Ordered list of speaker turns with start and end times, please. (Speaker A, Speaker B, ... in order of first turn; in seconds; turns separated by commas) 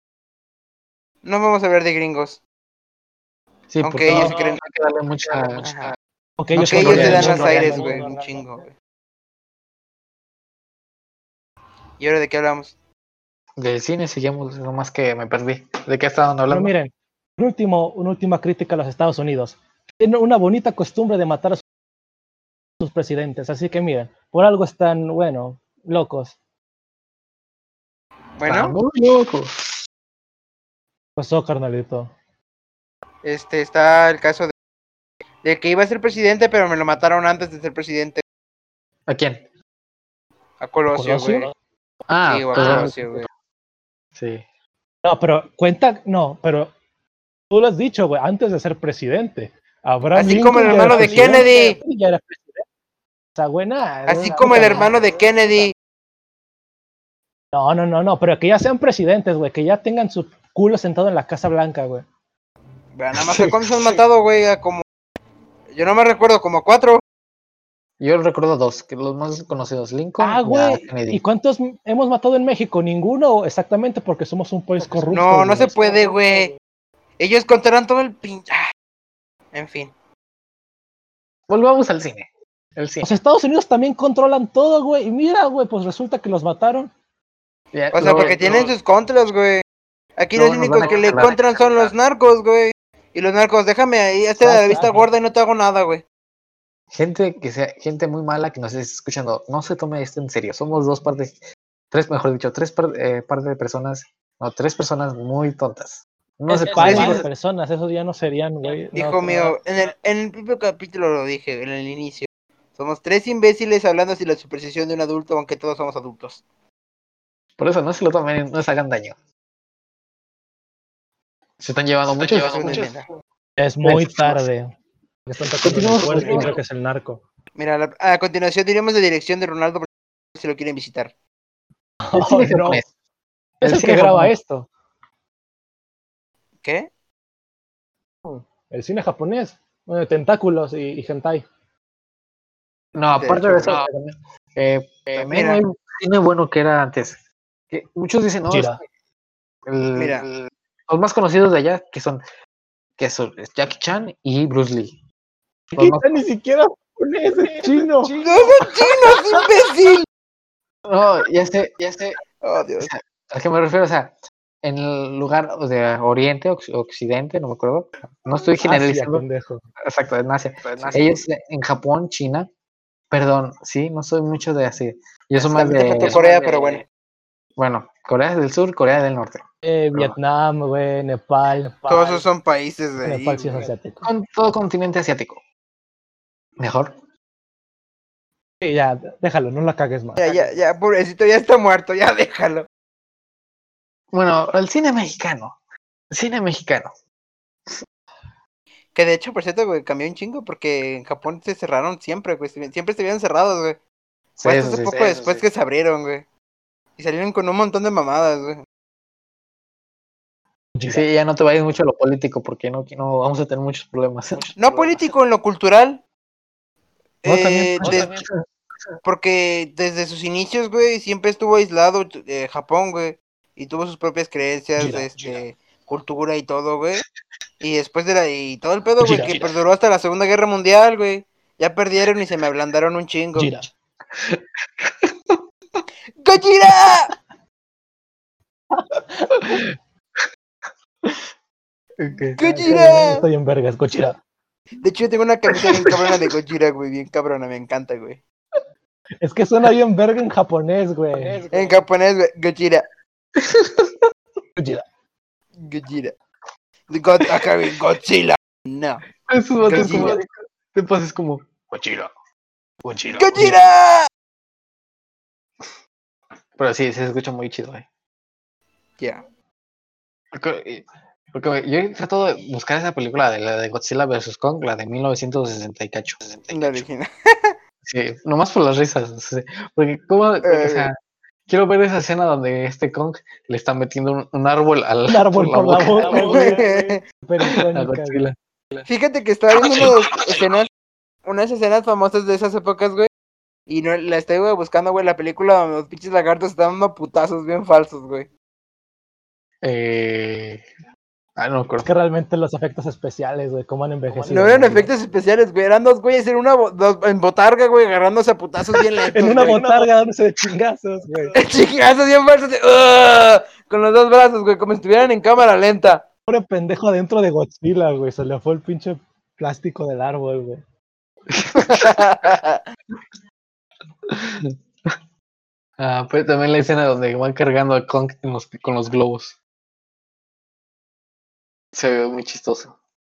Speaker A: 1.2-2.4, Speaker B: 3.7-5.9, Speaker A: 3.8-4.6, Speaker C: 4.1-4.4, Speaker A: 5.6-5.9, Speaker C: 6.4-8.5, Speaker B: 6.5-7.8, Speaker A: 6.6-8.7, Speaker A: 12.0-12.7, Speaker B: 13.6-16.7, Speaker C: 16.5-21.6, Speaker C: 22.8-26.4, Speaker A: 28.4-28.7, Speaker B: 28.4-29.8, Speaker C: 31.2-32.1, Speaker A: 33.2-34.5, Speaker A: 35.4-38.2, Speaker B: 39.1-39.4, Speaker A: 40.6-41.5, Speaker C: 40.9-41.5, Speaker B: 42.1-43.1, Speaker A: 42.2-43.3, Speaker C: 42.5-43.0, Speaker B: 44.1-44.4, Speaker C: 45.0-46.7, Speaker C: 47.5-52.6, Speaker A: 50.1-51.8, Speaker C: 53.4-55.0, Speaker A: 54.1-55.7, Speaker C: 57.5-62.0, Speaker A: 63.0-64.8, Speaker B: 63.2-64.0, Speaker A: 65.7-67.0, Speaker B: 68.0-71.2, Speaker C: 70.2-75.9, Speaker A: 75.1-76.5, Speaker A: 77.2-78.7, Speaker A: 79.5-79.9, Speaker B: 81.5-83.1, Speaker C: 83.0-86.9, Speaker B: 87.7-88.7, Speaker A: 87.9-89.6, Speaker A: 90.2-96.0, Speaker B: 90.3-91.9, Speaker C: 94.4-95.1, Speaker B: 96.9-101.4, Speaker B: 101.9-107.3, Speaker C: 106.5-109.5, Speaker A: 106.7-107.2, Speaker A: 108.9-116.4, Speaker B: 117.6-119.2, Speaker B: 121.6-122.9, Speaker A: 122.2-123.1, Speaker C: 123.6-124.7, Speaker B: 123.8-124.5, Speaker C: 125.3-127.2, Speaker B: 125.6-126.6, Speaker A: 126.2-126.5, Speaker A: 127.5-131.1, Speaker C: 132.0-132.8, Speaker B: 132.1-132.9, Speaker C: 133.6-134.7, Speaker B: 133.6-134.3, Speaker A: 136.6-136.9, Speaker C: 138.2-141.4, Speaker B: 142.9-147.2, Speaker A: 143.1-143.8, Speaker A: 145.2-145.6, Speaker B: 147.7-148.8, Speaker C: 148.5-148.8, Speaker B: 149.7-152.2, Speaker A: 149.9-150.3, Speaker B: 153.0-155.0, Speaker C: 155.7-158.2, Speaker B: 155.7-156.2, Speaker A: 158.1-160.1, Speaker B: 160.8-162.2, Speaker A: 162.4-162.9, Speaker B: 162.8-169.2, Speaker C: 168.6-169.6, Speaker B: 169.8-172.5, Speaker A: 170.8-171.0, Speaker B: 173.1-176.8, Speaker A: 175.4-176.8, Speaker B: 177.6-179.4, Speaker C: 179.6-182.2, Speaker A: 181.9-183.7, Speaker C: 183.0-184.1, Speaker B: 184.0-185.4, Speaker B: 186.6-186.9, Speaker C: 188.6-190.4, Speaker A: 190.2-192.7, Speaker B: 194.1-195.6, Speaker B: 196.1-196.9, Speaker A: 198.9-203.8, Speaker B: 204.4-205.4, Speaker A: 204.4-206.2, Speaker A: 207.0-208.6, Speaker C: 210.8-211.0, Speaker B: 210.8-215.0, Speaker A: 214.6-216.0, Speaker A: 217.2-218.1, Speaker B: 217.2-218.3, Speaker A: 219.0-227.0, Speaker C: 224.8-225.1, Speaker A: 227.6-233.5, Speaker C: 229.0-229.4, Speaker B: 229.1-229.6, Speaker C: 233.3-233.7, Speaker B: 234.1-235.4, Speaker A: 236.2-237.1, Speaker C: 238.8-239.6, Speaker B: 239.4-239.7, Speaker B: 242.0-242.4, Speaker A: 242.3-243.2, Speaker C: 242.4-244.2, Speaker A: 244.8-248.2, Speaker B: 245.6-246.2, Speaker C: 249.2-251.5, Speaker A: 251.5-252.8, Speaker B: 253.3-254.1, Speaker C: 254.6-254.8, Speaker A: 255.6-256.1, Speaker A: 256.9-259.0, Speaker B: 259.3-262.1, Speaker A: 259.6-260.2, Speaker B: 262.8-263.6, Speaker A: 263.1-264.1, Speaker B: 266.6-267.9, Speaker B: 270.3-276.8, Speaker A: 276.5-277.6, Speaker B: 277.8-280.9, Speaker A: 280.4-280.9, Speaker B: 281.5-286.5, Speaker C: 285.1-288.2, Speaker A: 286.1-287.0, Speaker B: 287.4-288.9, Speaker A: 288.9-290.7, Speaker B: 289.6-290.4, Speaker A: 291.2-293.1, Speaker A: 293.7-298.3, Speaker B: 299.6-300.6, Speaker B: 301.4-301.9, Speaker C: 301.8-304.9, Speaker A: 304.2-309.9, Speaker C: 309.1-311.3, Speaker A: 311.3-316.0, Speaker C: 316.3-320.6, Speaker B: 321.3-322.3, Speaker A: 321.5-322.6, Speaker B: 324.1-324.9, Speaker B: 325.8-329.4, Speaker B: 331.7-332.7